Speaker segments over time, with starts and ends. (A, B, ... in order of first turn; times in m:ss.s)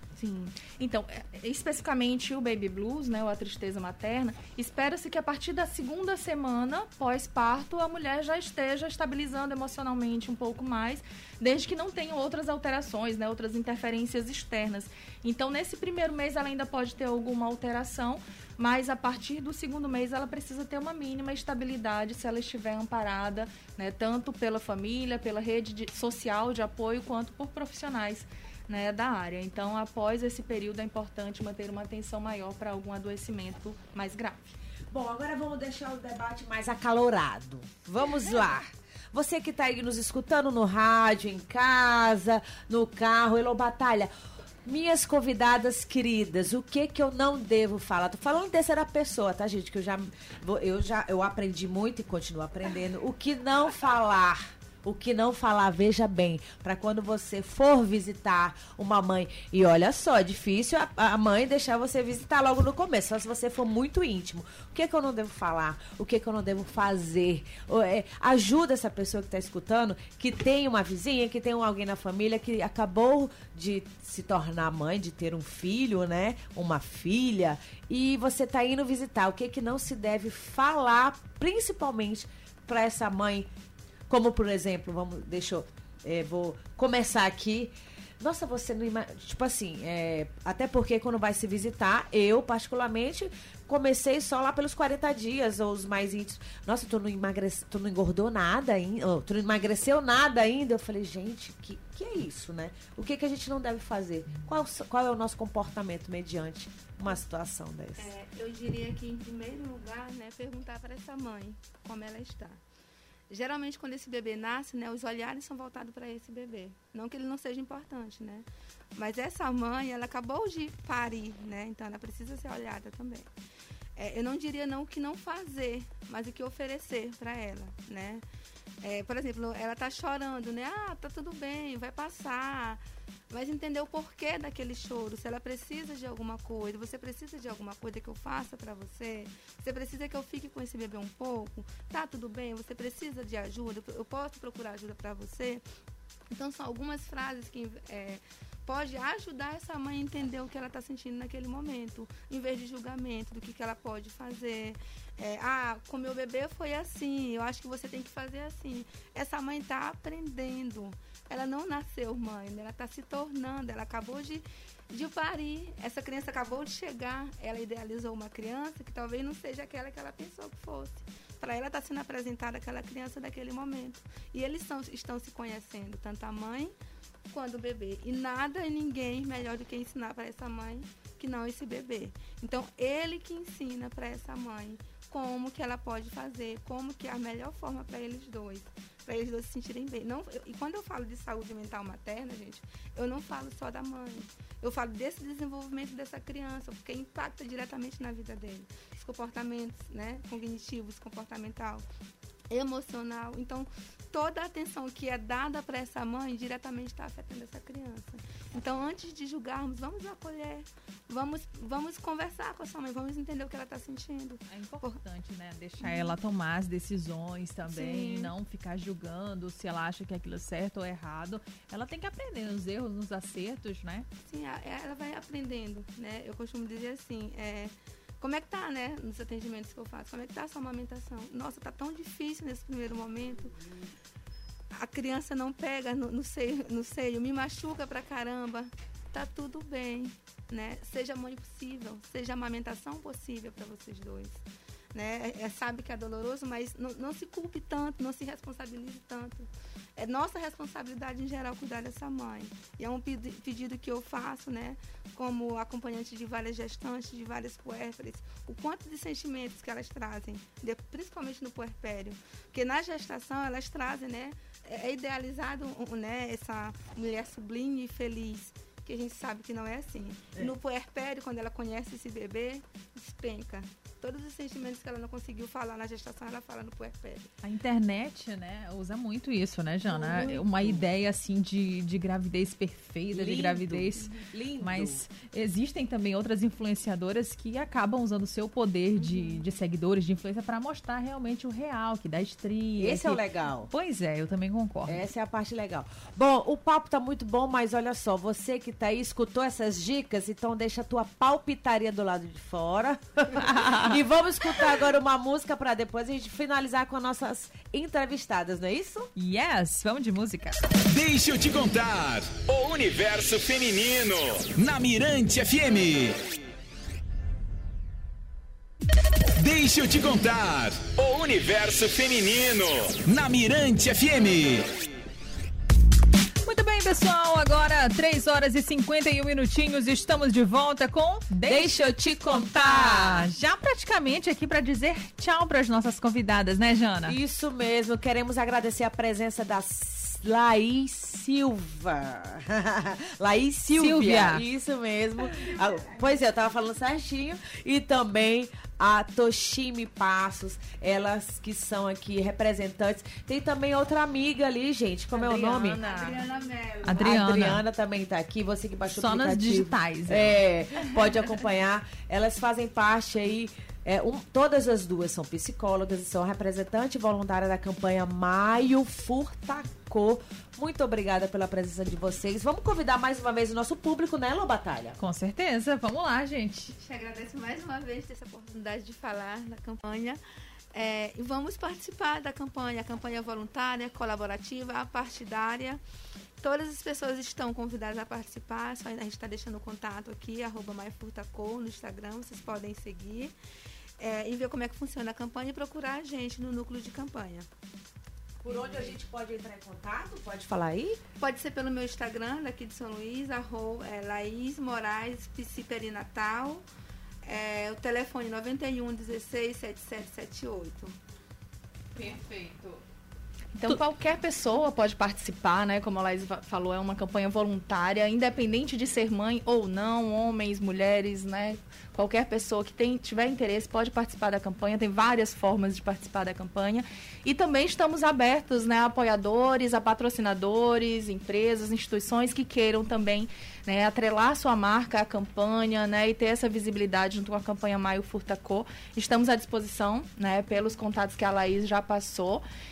0:00.2-0:34.5 A
0:34.9-0:44.1 B
0:44.6-1:23.5 B
1:24.1-1:48.1 B
1:48.0-1:52.6 C
1:53.3-2:03.3 C
2:04.0-2:08.2 C
2:08.8-2:25.6 C
2:26.3-2:56.7 C
2:57.3-3:21.8 C
3:22.5-3:35.0 C
3:34.5-3:44.1 D
3:35.8-3:36.1 C
3:37.7-3:38.3 C
3:44.3-3:53.6 C
3:54.7-4:04.4 C
4:04.9-4:37.3 C
4:37.4-4:55.0 D
4:39.9-4:40.4 C
4:43.1-4:45.0 B
4:49.0-4:49.5 C
4:52.8-4:53.7 B
4:54.8-5:09.1 B
5:03.4-5:03.9 D
5:09.2-5:10.6 D
5:10.9-5:16.2 E
5:19.4-5:24.8 E
5:26.4-5:37.2 D
5:31.4-5:33.3 B
5:37.0-5:55.8 B
5:43.7-5:44.4 D
5:55.1-5:56.2 A
5:55.8-5:57.1 C
5:56.8-5:57.6 D
5:56.8-6:15.0 B
5:58.9-6:00.4 D
6:15.0-6:16.7 D
6:16.8-6:20.2 C
6:20.7-6:25.8 C
6:26.4-6:33.3 C
6:34.0-6:37.5 C
6:38.4-6:41.0 B
6:38.7-6:38.9 C
6:41.2-6:46.6 C
6:47.2-6:51.0 C
6:51.9-6:52.8 D
6:53.5-7:22.4 A